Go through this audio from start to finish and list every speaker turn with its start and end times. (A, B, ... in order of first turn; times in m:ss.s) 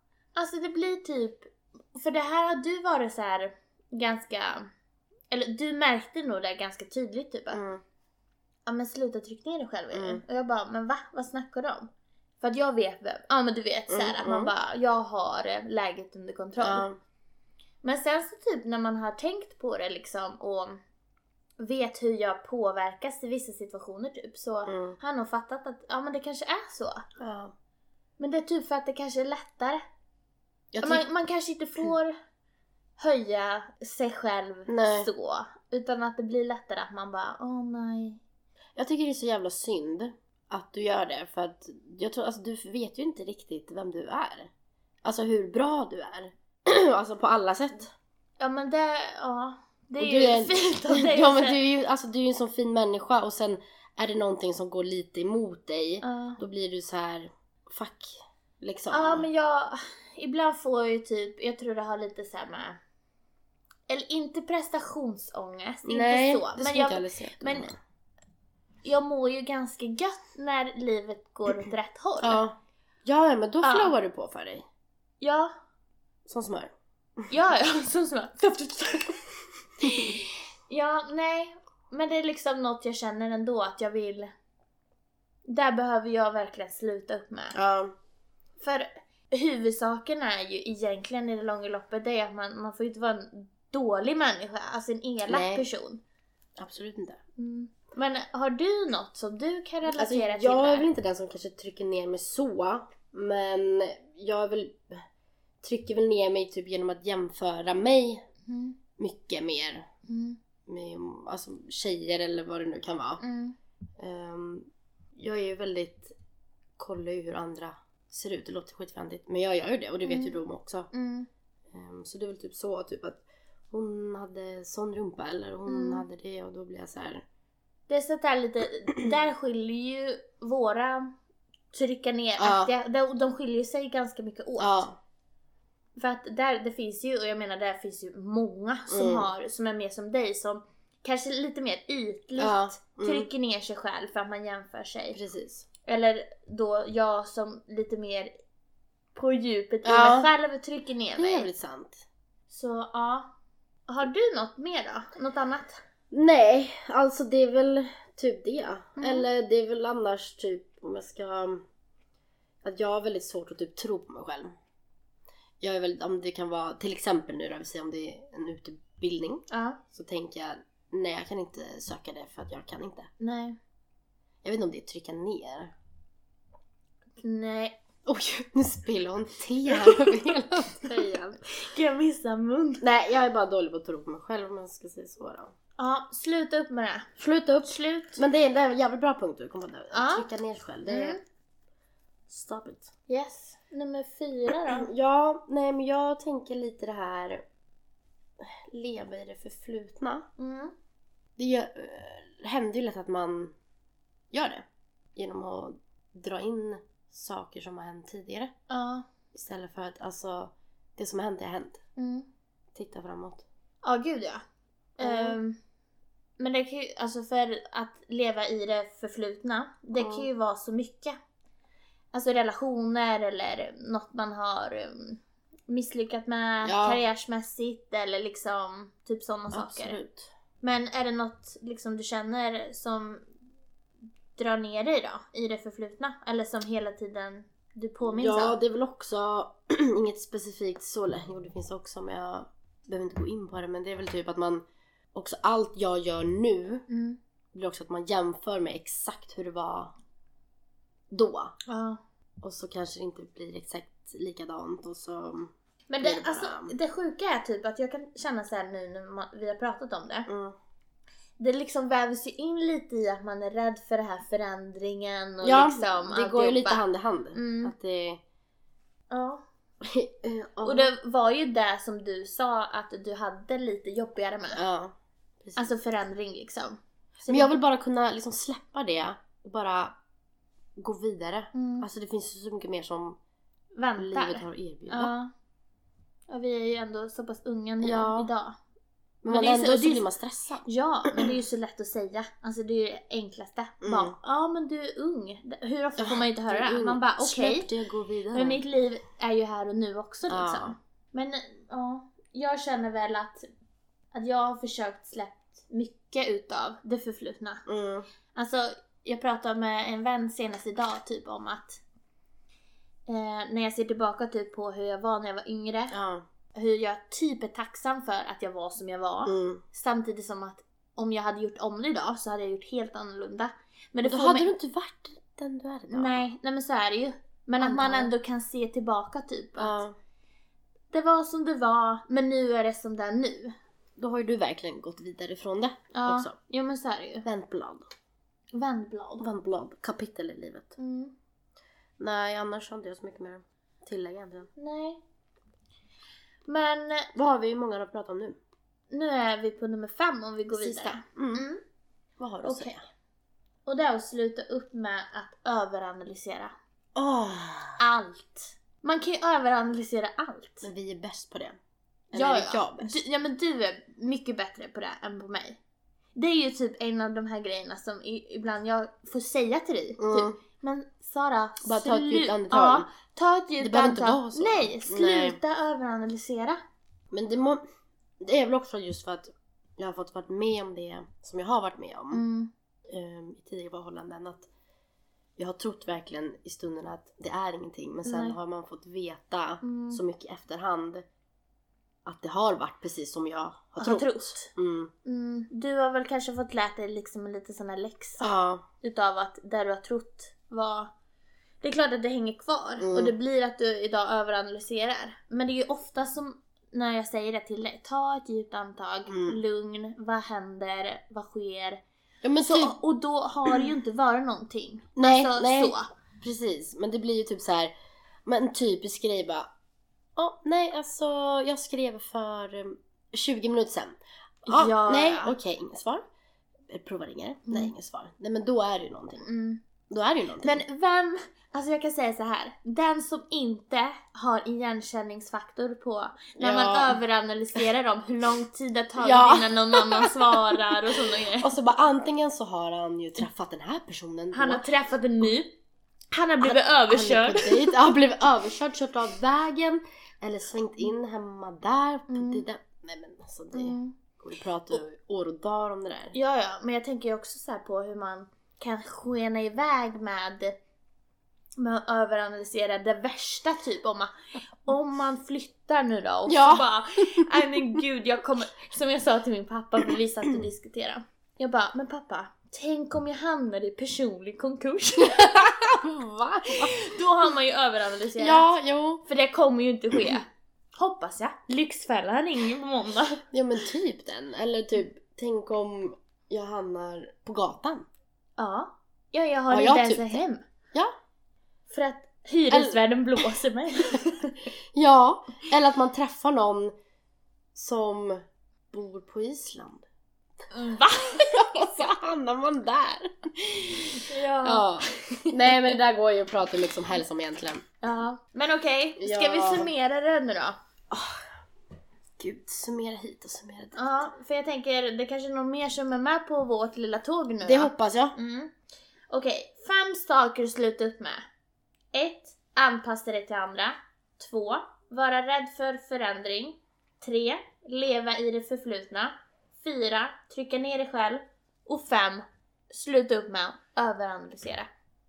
0:00.4-0:04.7 A
0:05.3-0:07.6 A
0:07.5-0:07.8 B
0:08.6-0:11.9 A
0:09.9-0:10.2 B
0:12.4-0:16.9 A
0:13.9-0:14.5 B
0:16.6-0:17.0 B
0:17.8-0:20.8 A
0:21.6-0:27.0 A
0:24.7-0:25.0 B
0:27.2-0:27.5 B
0:28.2-0:29.8 A
0:30.7-0:31.0 B
0:30.8-0:32.1 A
0:33.0-0:38.2 A
0:34.7-0:35.1 B
0:38.8-0:44.5 B
0:45.0-0:47.9 B
0:48.4-0:51.6 A
0:50.0-0:59.3 B
0:56.0-0:56.4 A
0:58.9-1:02.8 A
1:03.9-1:07.7 A
1:05.8-1:07.8 B
1:08.8-1:12.4 A
1:12.2-1:14.6 B
1:13.6-1:13.9 A
1:15.2-1:15.5 A
1:16.3-1:17.3 B
1:17.3-1:19.3 A
1:19.8-1:24.3 A
1:25.5-1:27.6 A
1:27.5-1:27.9 B
1:28.6-1:36.0 A
1:35.2-1:35.6 B
1:36.6-1:37.2 B
1:37.4-1:40.9 A
1:40.0-1:45.0 B
1:45.6-1:48.2 B
1:48.5-1:48.8 A
1:49.0-1:49.9 B
1:50.1-1:50.4 A
1:50.7-1:53.2 B
1:53.2-1:53.6 A
1:54.0-1:56.1 B
1:56.8-2:00.9 B
2:00.0-2:00.4 A
2:00.9-2:01.3 A
2:01.7-2:07.2 B
2:05.7-2:06.0 A
2:07.9-2:11.1 A
2:11.7-2:14.9 A
2:12.4-2:12.7 B
2:14.6-2:15.0 B
2:16.0-2:25.2 A
2:18.9-2:19.3 B
2:22.4-2:23.3 B
2:25.1-2:25.6 B
2:25.8-2:28.3 A
2:29.1-2:31.5 A
2:29.8-2:30.3 B
2:31.2-2:32.0 B
2:32.5-2:33.3 A
2:33.9-2:35.8 A
2:36.1-2:41.6 B
2:39.0-2:39.3 A
2:42.6-2:44.5 B
2:45.6-2:53.1 B
2:49.5-2:49.8 A
2:53.2-2:53.6 A
2:54.4-2:55.7 B
2:57.2-2:57.8 A
2:58.0-3:01.4 B
2:59.8-3:00.2 A
3:00.8-3:02.8 A
3:02.8-3:05.5 B
3:05.8-3:07.1 A
3:07.2-3:11.2 B
3:07.6-3:08.2 A
3:09.9-3:10.3 A
3:10.9-3:11.2 A
3:12.3-3:12.9 B
3:13.1-3:14.9 A
3:14.7-3:17.4 B
3:18.4-3:20.3 B
3:20.4-3:20.7 A
3:21.4-3:23.5 B
3:24.3-3:24.6 B
3:25.2-3:28.5 B
3:28.7-3:29.1 A
3:29.3-3:31.8 B
3:32.0-3:32.3 A
3:32.8-3:33.4 B
3:33.8-3:34.4 A
3:35.0-3:35.6 A
3:35.0-3:35.4 B
3:36.4-3:41.2 A
3:40.0-3:40.3 B
3:42.1-3:50.0 A
3:46.6-3:47.0 B
3:49.5-3:50.3 B
3:50.6-3:53.2 A
3:54.4-3:58.6 A
3:58.0-4:06.8 B
4:06.9-4:07.2 A
4:07.5-4:09.9 B
4:11.1-4:11.6 B
4:11.7-4:12.0 A
4:12.4-4:16.8 B
4:15.9-4:20.3 A
4:20.3-4:20.6 B
4:21.4-4:26.8 A
4:25.4-4:28.2 B
4:27.3-4:27.7 A
4:29.1-4:29.4 A
4:29.8-4:30.9 B
4:30.6-4:34.6 A
4:34.5-4:35.7 B
4:35.6-4:37.6 A
4:37.3-4:39.9 B
4:40.8-4:43.2 B
4:41.5-4:41.9 A
4:43.8-4:45.3 A
4:44.0-4:45.2 B
4:46.3-4:48.6 A
4:47.8-4:48.3 B
4:49.2-4:51.4 B
4:49.3-4:50.1 A
4:50.6-4:57.7 A
4:53.8-4:54.2 B
4:56.0-4:58.6 B
4:58.3-5:03.5 A
5:00.3-5:00.8 B
5:04.1-5:07.6 A
5:07.6-5:08.1 B
5:08.3-5:11.8 A
5:13.1-5:15.9 A
5:15.9-5:16.2 B
5:16.5-5:24.5 A
5:19.2-5:19.6 B
5:24.0-5:26.3 B
5:25.9-5:29.8 A
5:27.6-5:28.1 B
5:29.6-5:30.0 B
5:30.9-5:33.5 A
5:34.0-5:36.4 B
5:35.9-5:37.2 A
5:37.2-5:37.9 B
5:38.5-5:39.3 A
5:39.2-5:40.7 B
5:40.8-5:41.1 A
5:42.0-5:44.5 B
5:44.6-5:45.0 A
5:46.5-5:47.1 A
5:47.1-5:48.4 B
5:48.9-5:51.6 A
5:50.5-5:51.5 B
5:52.2-5:52.8 B
5:52.4-5:52.7 A
5:53.6-5:56.5 A
5:57.0-5:57.8 B
5:57.8-6:00.7 A
6:00.6-6:01.6 B
6:02.1-6:03.0 B
6:02.1-6:05.6 A
6:06.2-6:16.6 A
6:10.0-6:10.4 B
6:11.6-6:12.9 B
6:13.6-6:15.4 B
6:17.1-6:17.6 B
6:18.2-6:22.2 B
6:22.1-6:22.5 A
6:22.9-6:24.5 B
6:25.4-6:31.0 B
6:28.0-6:28.4 A
6:29.6-6:30.0 A
6:32.0-6:34.9 B
6:33.8-6:34.5 A
6:35.0-6:40.9 A
6:38.2-6:38.6 B
6:41.6-6:51.8 A
6:42.8-6:43.2 B
6:49.1-6:49.4 B
6:52.2-6:52.8 B
6:52.4-6:55.9 A
6:55.0-6:57.7 B
6:58.2-6:59.5 B
7:00.2-7:04.0 B
7:04.5-7:05.3 A
7:04.5-7:06.0 B
7:06.7-7:09.2 B
7:07.5-7:07.7 A
7:09.2-7:09.6 A
7:09.9-7:10.6 B
7:10.4-7:21.5 A
7:16.4-7:17.0 B
7:19.0-7:20.6 B
7:21.4-7:24.7 B
7:24.3-7:25.6 A
7:26.1-7:27.7 A
7:26.4-7:36.2 B
7:32.1-7:32.4 A
7:33.5-7:34.0 A
7:36.1-7:40.6 A
7:41.6-7:44.1 A
7:44.6-7:55.3 A
7:46.3-7:47.8 B
7:55.0-7:56.8 B
7:56.5-7:58.5 A
7:58.2-7:59.0 B
7:59.0-8:03.2 A
8:03.3-8:07.8 B
8:08.4-8:10.4 A
8:09.5-8:10.2 B
8:11.7-8:14.4 A
8:12.5-8:13.2 B
8:14.8-8:16.7 B
8:17.5-8:18.2 B
8:18.7-8:19.9 B
8:20.5-8:21.9 A
8:21.1-8:27.6 B
8:23.8-8:25.8 A
8:27.8-8:30.6 A
8:29.0-8:29.7 B
8:30.9-8:31.3 B
8:32.2-8:34.1 B
8:33.8-8:38.5 A
8:37.4-8:38.2 B
8:39.1-8:41.2 A
8:41.9-8:54.7 A